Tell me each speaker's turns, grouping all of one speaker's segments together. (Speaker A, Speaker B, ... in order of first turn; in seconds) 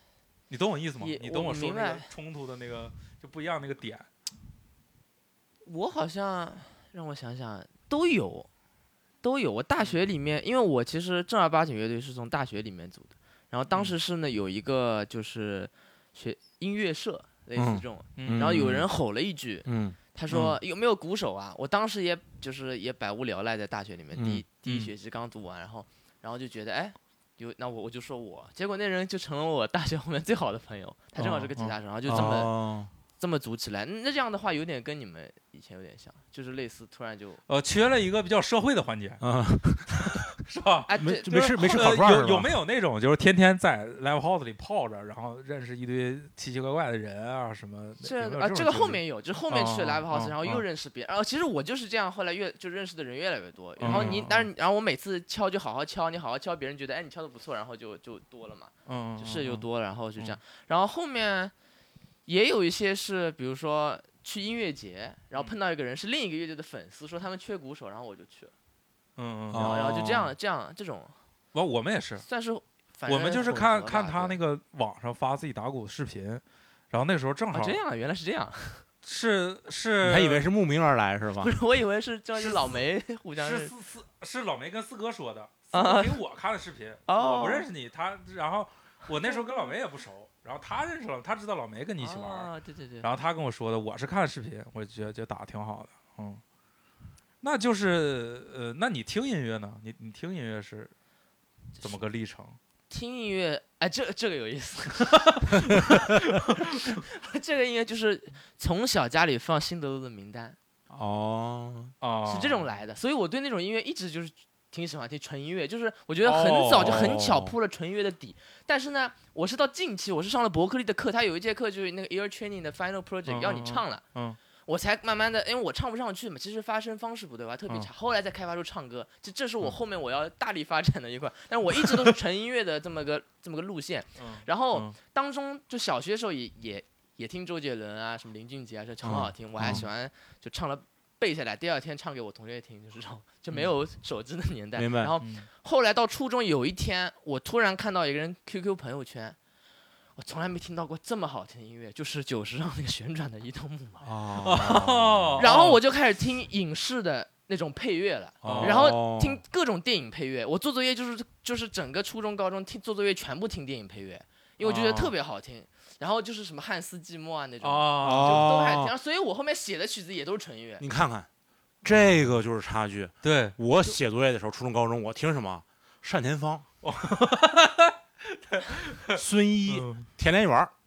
Speaker A: 0.5-4.1, 18.2-18.7, 24.6-24.9, 31.2-31.8, 37.5-39.2, 40.0-50.6, 53.8-54.5, 58.9-59.7, 69.2-70.1, 71.5-72.3, 73.1-77.8, 79.0-80.5, 82.4-82.8, 83.4-92.5, 93.0-96.4, 97.4-100.9, 101.8-102.6, 105.2-106.5, 112.0-112.7, 116.3-117.3, 123.3-124.4, 134.2-135.0, 145.2-145.5, 154.4-155.8, 158.4-158.8, 164.6-165.1, 167.6-168.6, 171.9-172.4, 173.2-173.6, 176.8-180.1
Speaker B: 1.0-2.1, 5.6-8.5, 9.2-32.5, 33.2-37.4, 40.9-41.4, 48.0-61.5, 62.3-68.5, 69.6-71.2, 72.2-74.4, 77.5-78.8, 81.4-83.7, 85.7-86.2, 87.1-87.7, 89.2-89.7, 92.0-93.1, 102.9-106.0, 106.5-110.6, 112.2-124.0, 124.7-149.4, 150.2-154.1, 155.4-170.8
Speaker C: 17.6-18.9, 19.7-20.5, 24.1-24.4, 32.1-32.9, 39.2-40.2, 41.0-42.5, 53.8-54.3, 69.5-70.3, 80.0-81.5, 110.9-111.9, 116.5-117.5, 139.0-139.8, 144.8-145.1, 154.0-155.5, 158.4-159.4, 168.0-168.9, 170.8-171.3, 171.8-176.7, 179.1-180.7